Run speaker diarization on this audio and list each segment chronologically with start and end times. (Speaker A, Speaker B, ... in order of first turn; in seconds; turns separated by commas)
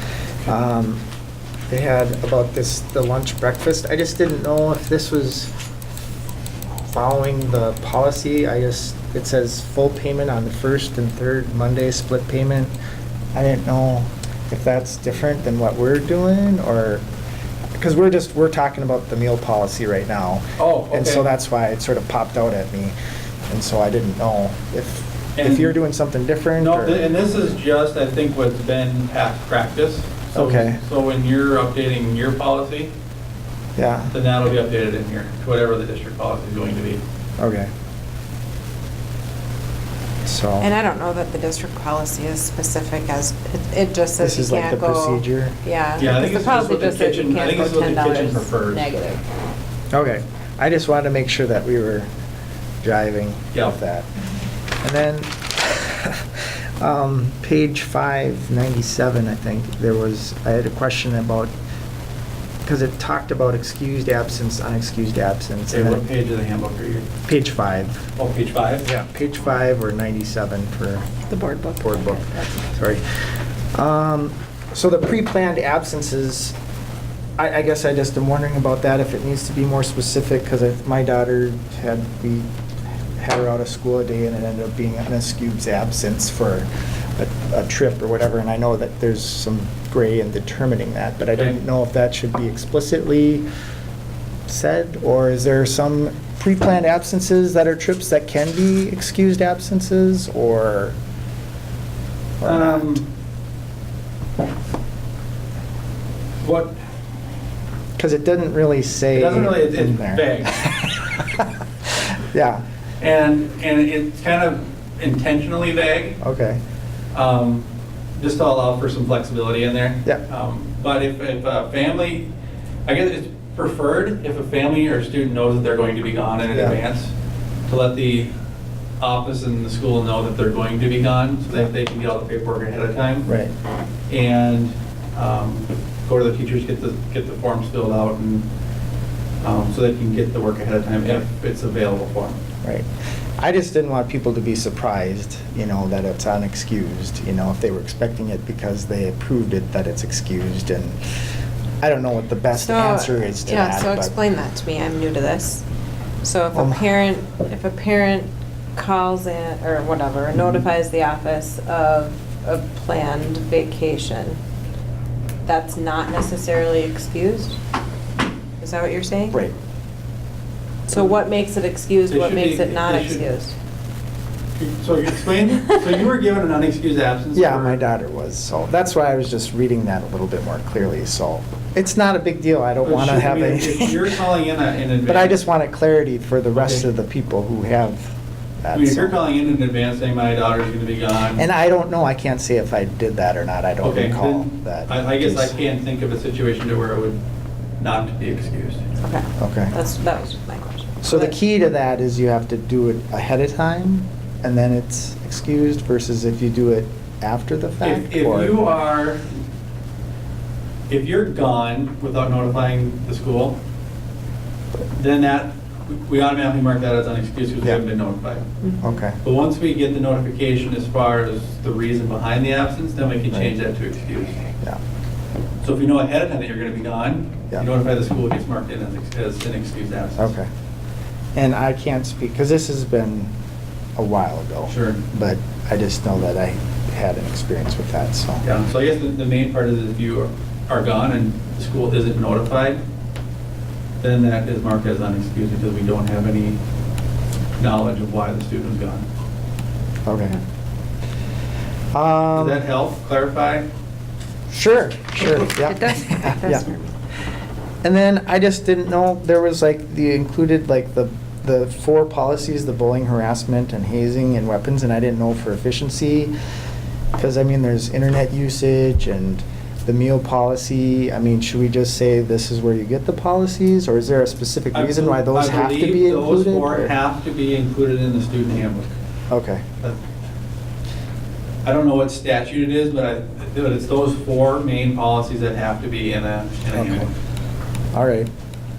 Speaker A: 0.4-1.0, Speaker A: 1.7-5.5, Speaker A: 6.9-12.7, Speaker A: 13.3-17.0, Speaker A: 17.8-22.9, Speaker B: 20.6-21.3, Speaker A: 23.5-27.0, Speaker B: 25.4-25.7, Speaker B: 26.6-32.9, Speaker A: 30.3-30.8, Speaker A: 33.8-34.1, Speaker B: 34.1-37.0, Speaker A: 37.4-37.7, Speaker A: 40.2-40.7, Speaker C: 40.6-49.2, Speaker A: 44.2-46.2, Speaker B: 46.0-48.9, Speaker A: 49.9-52.1, Speaker A: 52.8-54.1, Speaker A: 54.8-61.5, Speaker A: 62.6-66.0, Speaker B: 65.7-67.1, Speaker A: 67.3-68.1, Speaker B: 68.2-68.9, Speaker A: 68.8-71.1, Speaker C: 71.3-72.6, Speaker A: 71.8-73.0, Speaker A: 73.7-76.6, Speaker A: 77.4-82.5, Speaker A: 83.2-93.5, Speaker A: 94.5-101.0, Speaker A: 102.4-103.0, Speaker B: 102.4-103.1, Speaker B: 106.4-106.8, Speaker A: 108.0-112.6, Speaker B: 109.1-110.8, Speaker B: 113.0-116.2, Speaker A: 116.2-116.6, Speaker B: 117.1-122.3, Speaker B: 122.9-127.1, Speaker A: 126.5-126.8, Speaker B: 127.7-128.3, Speaker B: 129.0-133.3, Speaker A: 133.3-133.5, Speaker B: 134.1-138.5, Speaker B: 139.4-142.4, Speaker A: 142.6-142.9, Speaker A: 143.4-151.0, Speaker A: 151.8-154.1, Speaker C: 152.5-155.6, Speaker C: 156.2-164.4, Speaker A: 156.5-156.9, Speaker C: 165.4-167.6, Speaker C: 168.6-169.4, Speaker C: 170.9-173.5, Speaker B: 172.1-173.2, Speaker B: 174.6-177.8, Speaker A: 177.3-184.1, Speaker B: 182.8-185.4, Speaker A: 185.1-189.2, Speaker B: 186.6-186.9, Speaker B: 188.7-191.4, Speaker A: 191.3-195.6, Speaker B: 193.8-197.2, Speaker B: 197.8-198.9, Speaker C: 199.0-201.3, Speaker A: 199.4-199.8, Speaker A: 201.0-208.6, Speaker B: 207.8-209.4, Speaker B: 210.9-213.6, Speaker B: 215.0-218.4, Speaker C: 218.6-218.9, Speaker A: 218.8-219.2, Speaker B: 219.2-224.4, Speaker B: 225.6-230.3, Speaker A: 230.2-230.5, Speaker A: 231.3-233.3, Speaker A: 234.0-238.4, Speaker B: 234.7-235.0, Speaker B: 238.4-242.8, Speaker B: 244.0-246.6, Speaker B: 247.6-249.1, Speaker A: 250.1-250.4, Speaker A: 251.9-252.7, Speaker B: 252.3-253.7, Speaker A: 254.5-256.7, Speaker C: 255.2-256.9, Speaker A: 257.8-266.3, Speaker A: 267.2-276.9, Speaker B: 274.7-278.9, Speaker A: 279.3-279.6, Speaker B: 281.6-287.1, Speaker A: 286.7-287.1, Speaker A: 287.9-288.3